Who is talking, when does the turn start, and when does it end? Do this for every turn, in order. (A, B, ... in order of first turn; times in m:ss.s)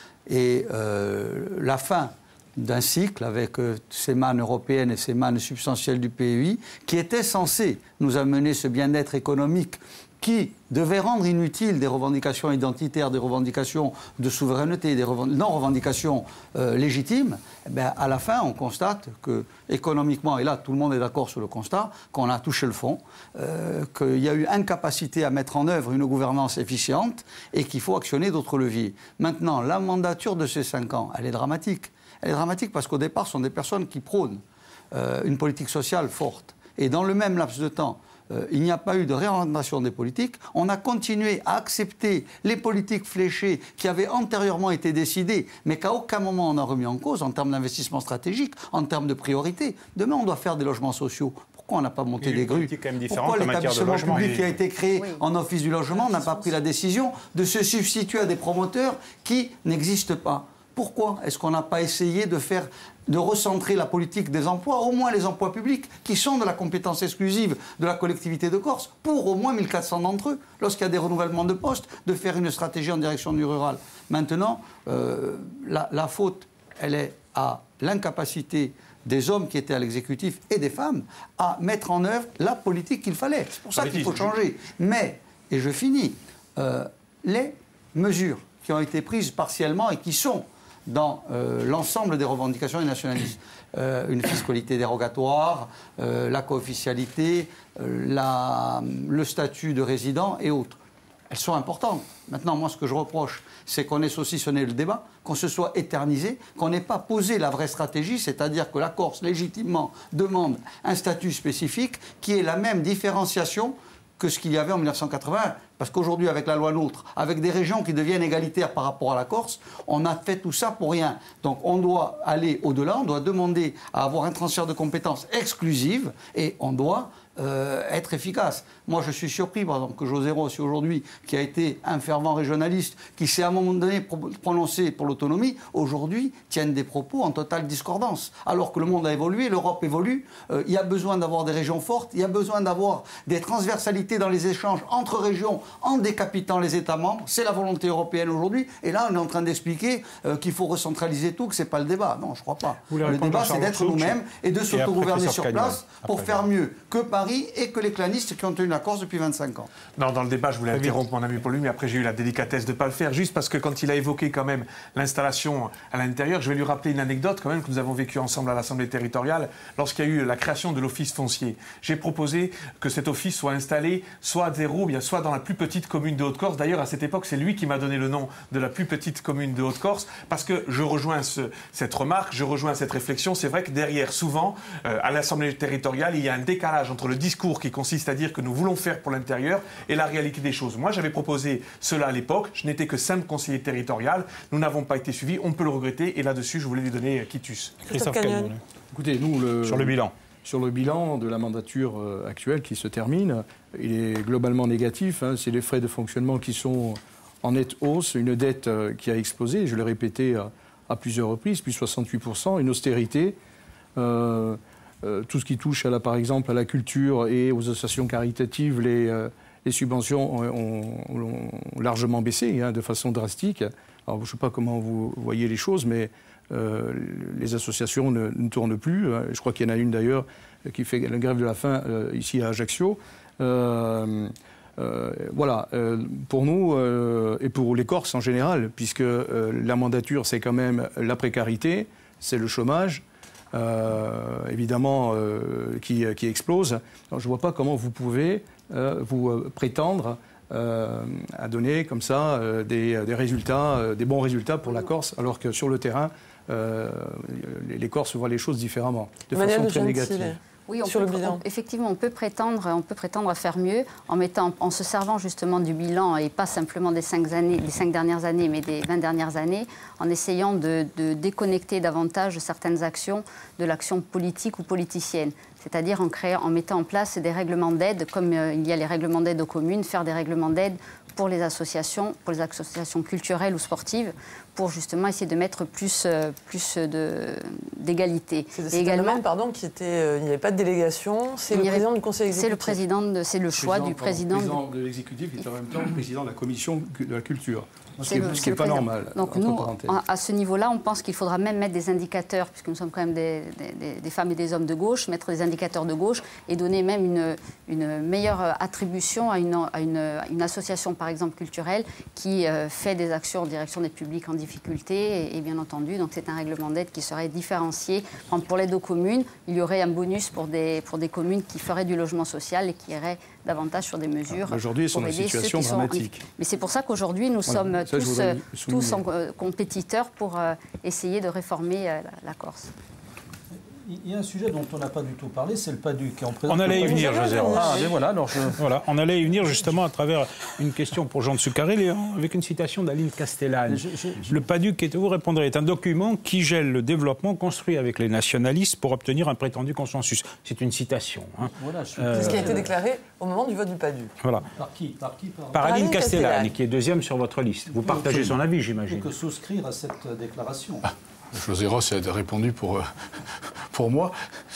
0:00.3-2:39.7 A
0:52.2-0:54.5 B
0:55.0-0:55.2 C
0:55.9-0:56.6 C
1:23.8-1:24.3 D
2:32.9-2:34.2 B
2:34.7-2:36.4 B
2:40.0-3:17.8 D
2:40.7-2:41.0 B
3:17.8-3:18.6 B
3:17.8-3:18.5 E
3:18.9-3:33.4 F
3:19.7-3:20.1 B
3:34.0-4:20.4 F
4:19.3-4:21.4 E
4:20.7-4:49.2 C
4:48.5-4:52.8 E
4:51.5-4:54.6 C
4:53.5-5:00.0 F
4:58.0-5:32.7 C
5:24.3-5:26.2 F
5:27.5-5:29.0 F
5:33.8-5:38.6 G
5:36.5-5:37.9 B
5:36.7-5:37.9 E
5:38.5-5:52.6 B
5:43.7-5:44.4 G
5:51.6-5:52.7 G
5:52.1-5:54.1 E
5:54.6-5:55.8 G
5:55.5-5:59.1 B
5:55.6-5:56.5 E
5:57.8-5:58.3 G
5:58.9-6:00.9 G
6:01.3-6:04.2 H